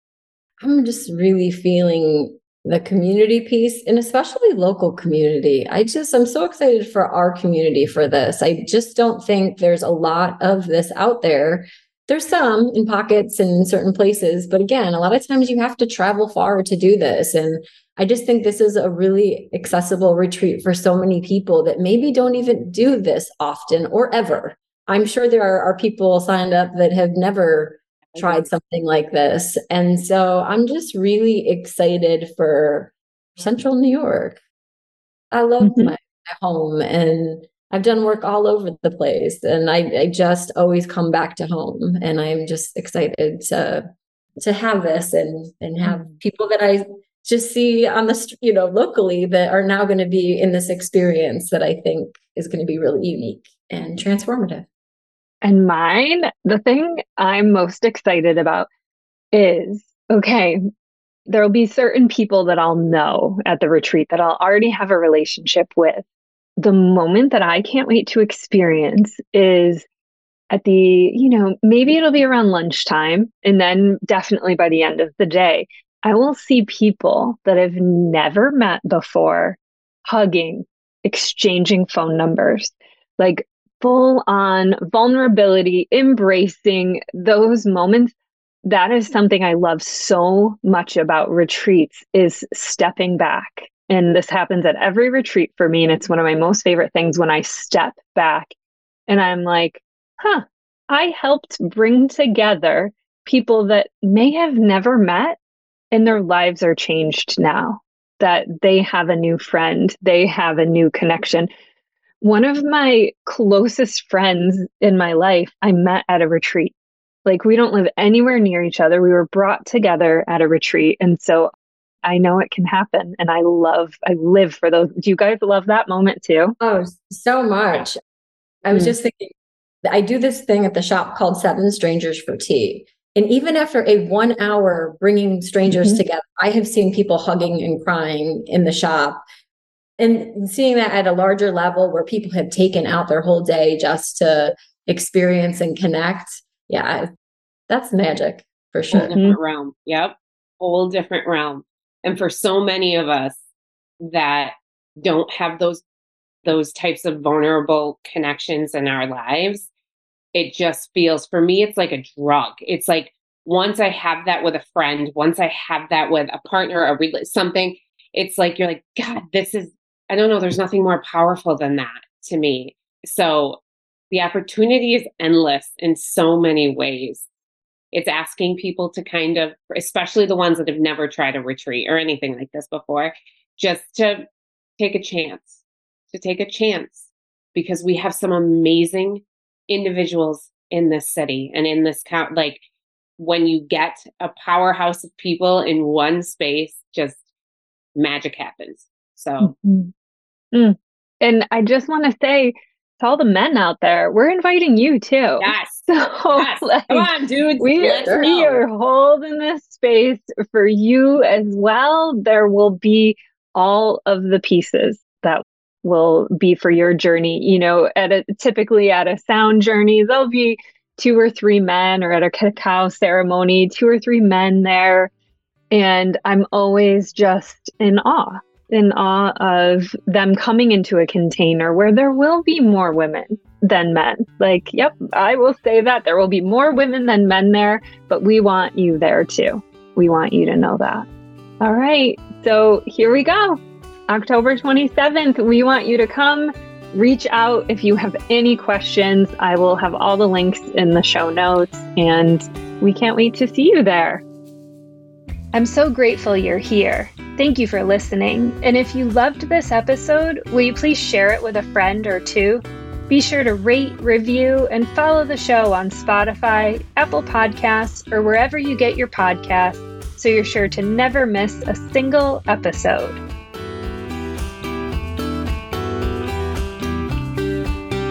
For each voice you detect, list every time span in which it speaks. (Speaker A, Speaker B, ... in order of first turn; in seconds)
Speaker A: 0.6-34.4, 35.3-43.9, 44.4-54.7, 126.6-128.0, 128.7-129.3, 129.8-139.2, 140.0-147.1, 147.7-149.1
Speaker B: 28.1-28.5, 149.1-153.4, 154.0-155.8, 156.4-159.7, 160.3-173.6, 174.1-177.3, 177.9-184.2, 184.8-192.6, 193.2-197.2, 197.9-199.5, 205.4-208.6
Speaker C: 35.6-35.9, 45.9-46.1, 55.4-58.7, 59.3-60.6, 61.3-66.0, 66.6-69.9, 70.5-98.5, 99.1-105.4, 105.9-111.5, 112.2-116.7, 117.3-121.5, 122.0-126.6, 135.7-136.0, 148.9-149.4, 199.4-199.9, 200.5-225.1, 225.7-241.1, 241.6-254.2, 255.5-273.2